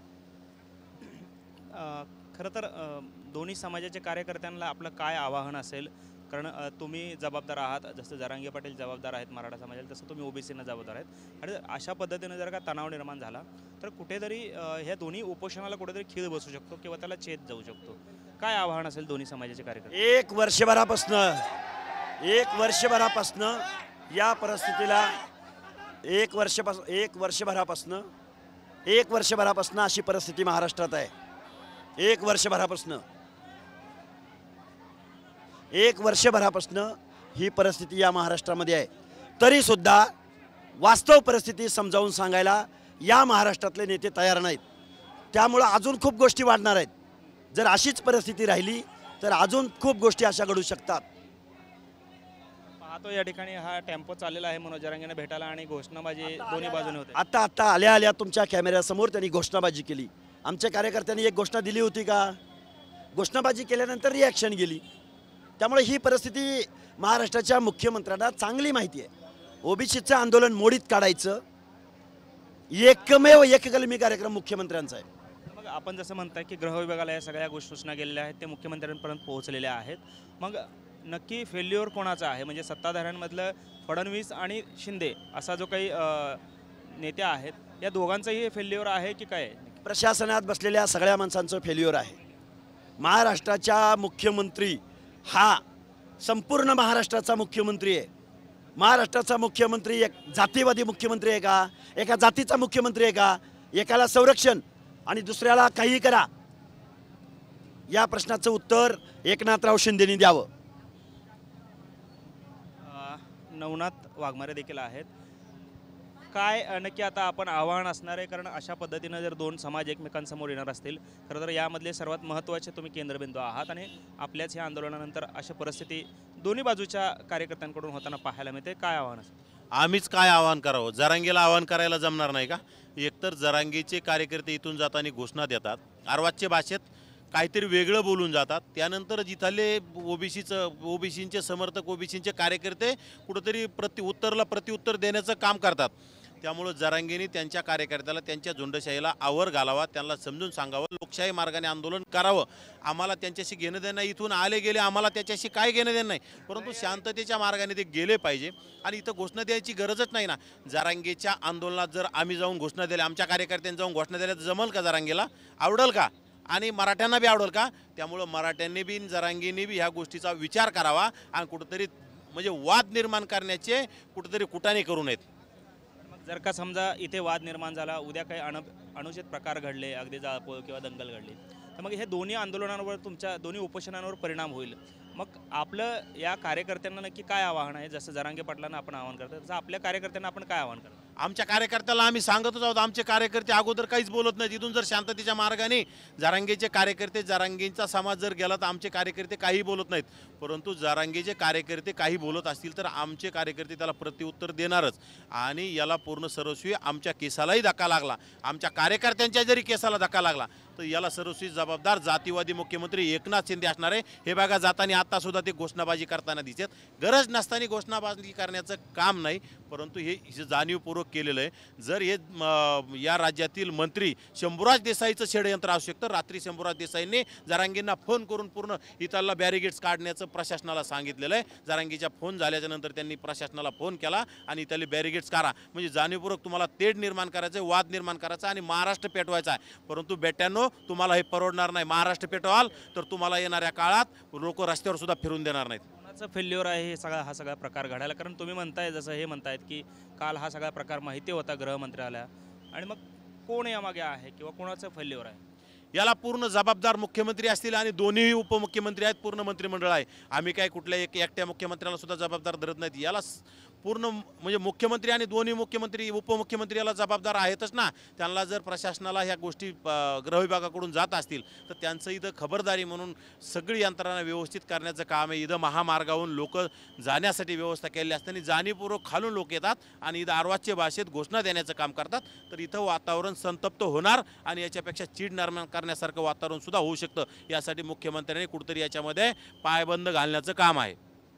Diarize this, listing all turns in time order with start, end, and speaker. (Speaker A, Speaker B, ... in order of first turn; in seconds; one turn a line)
Speaker A: 1.0-19.9
Speaker B: 19.9-21.5
Speaker B: 22.2-25.1
Speaker B: 26.0-28.1
Speaker B: 28.9-31.1
Speaker B: 32.0-33.0
Speaker B: 35.7-40.1
Speaker B: 40.8-44.6
Speaker B: 45.3-46.9
Speaker B: 47.5-51.0
Speaker A: 52.8-57.2
Speaker B: 56.2-62.4
Speaker B: 63.1-64.8
Speaker B: 65.6-69.1
Speaker B: 69.6-71.4
Speaker B: 72.7-75.0
Speaker A: 75.5-89.8
Speaker B: 89.8-92.1
Speaker B: 93.0-95.6
Speaker B: 96.2-98.1
Speaker B: 98.8-106.3
Speaker B: 107.9-110.5
Speaker A: 112.8-115.1
Speaker A: 116.3-129.3
Speaker C: 129.7-175.2
Speaker A: 176.1-191.0
Speaker C: 191.2-245.8
Speaker A: 246.0-255.4
Speaker C: 255.9-290.9